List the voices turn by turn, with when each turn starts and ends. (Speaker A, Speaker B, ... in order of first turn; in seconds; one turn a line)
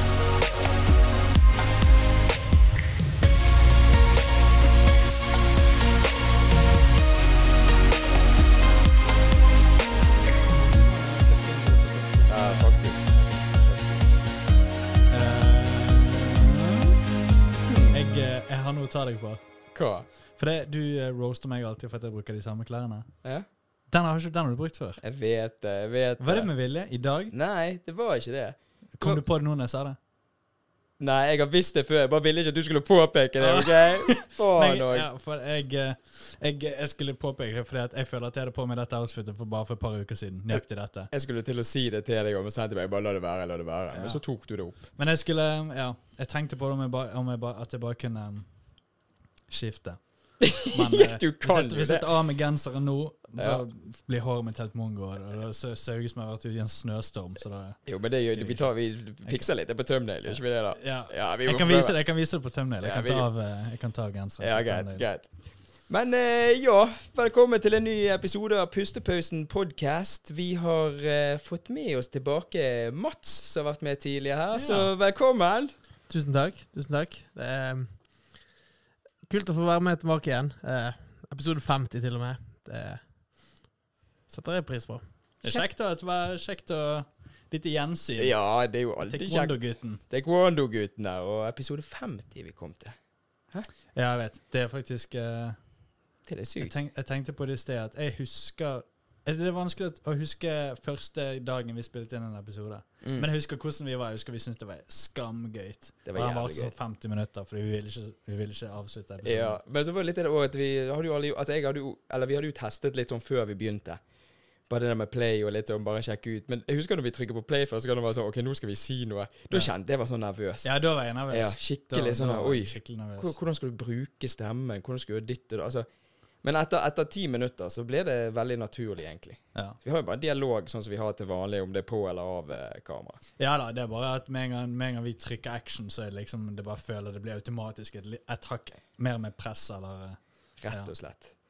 Speaker A: 10.8-12.8
Speaker B: 12.3-14.1
Speaker A: 15.1-16.9
Speaker B: 17.7-18.0
Speaker A: 17.9-19.4
Speaker B: 19.7-20.1
Speaker A: 20.4-23.1
Speaker A: 23.9-25.0
Speaker B: 25.0-26.5
Speaker A: 26.2-27.3
Speaker B: 27.3-29.2
Speaker A: 29.0-30.0
Speaker B: 31.0-35.1
Speaker A: 33.4-41.1
Speaker B: 41.1-44.8
Speaker A: 43.9-44.2
Speaker A: 44.9-48.5
Speaker A: 49.5-57.8
Speaker B: 50.4-52.1
Speaker B: 53.4-53.6
Speaker B: 57.9-62.0
Speaker A: 58.3-58.6
Speaker A: 60.3-65.0
Speaker B: 62.8-63.3
Speaker B: 64.4-65.3
Speaker B: 65.9-75.7
Speaker A: 74.5-74.9
Speaker C: 76.1-78.4
Speaker C: 79.2-83.6
Speaker C: 84.3-85.6
Speaker A: 85.4-88.3
Speaker B: 88.2-93.0
Speaker A: 89.0-90.0
Speaker A: 93.9-95.6
Speaker B: 96.3-96.8
Speaker A: 96.6-109.6
Speaker B: 103.0-103.3
Speaker B: 106.0-106.7
Speaker B: 109.2-114.0
Speaker B: 114.7-120.7
Speaker A: 120.6-123.3
Speaker B: 121.3-125.8
Speaker B: 126.4-133.2
Speaker A: 133.4-140.2
Speaker B: 140.6-141.3